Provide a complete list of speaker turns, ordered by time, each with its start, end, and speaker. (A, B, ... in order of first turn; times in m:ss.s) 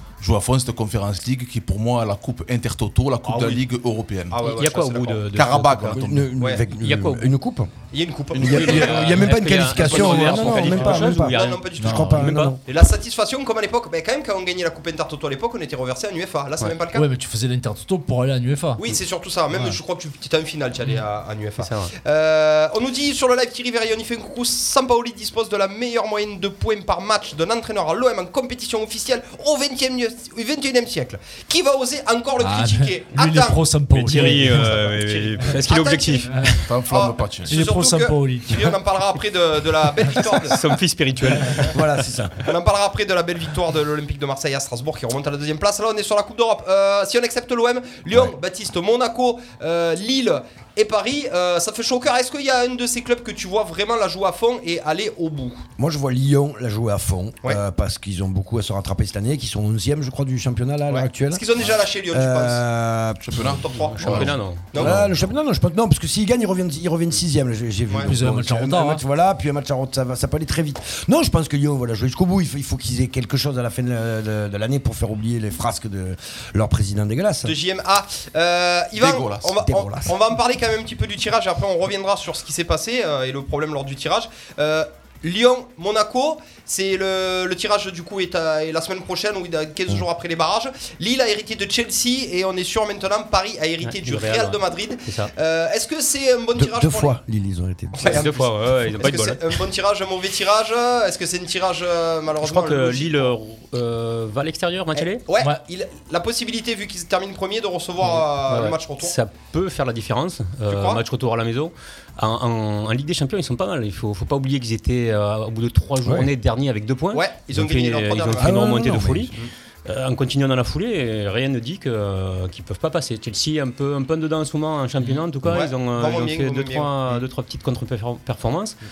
0:00.2-0:04.6 A
0:03.3-0:03.6 B
0:04.3-0:05.4 B
0:04.4-0:06.0 C
0:05.3-0:06.3 A
0:06.0-0:07.7 D
0:06.6-0:07.3 C
0:07.9-0:09.2 B
0:08.4-0:09.2 A
0:08.4-0:12.6 D
0:08.5-0:12.6 C
0:09.8-0:10.5 A
0:09.8-0:17.1 B
0:10.3-0:11.2 E
0:11.8-0:12.1 E
0:16.9-0:18.9 E
0:18.8-0:40.6 B
0:19.5-0:19.8 E
0:21.6-0:21.9 C
0:32.4-0:34.8 E
0:33.9-0:36.6 C
0:36.7-0:37.6 A
0:37.5-0:38.8 E
0:40.3-0:42.0 C
0:41.7-0:42.4 D
0:42.4-0:55.6 B
0:55.8-1:03.6 D
1:00.9-1:02.6 B
1:03.2-1:05.1 A
1:03.4-1:05.1 B
1:03.7-1:04.8 C
1:04.8-1:17.6 D
1:08.1-1:09.0 E
1:17.4-1:37.2 B
1:19.0-1:19.5 A
1:19.5-1:20.2 D
1:33.8-1:35.3 C
1:36.6-1:38.3 D
1:37.9-1:43.3 B
1:38.0-1:39.6 C
1:42.4-1:45.2 C
1:45.0-1:49.2 B
1:48.0-1:59.4 C
1:50.7-1:51.0 B
1:56.0-1:56.3 D
1:57.1-1:58.6 B
1:58.4-1:59.4 D
1:59.9-2:08.8 C
2:05.4-2:07.3 B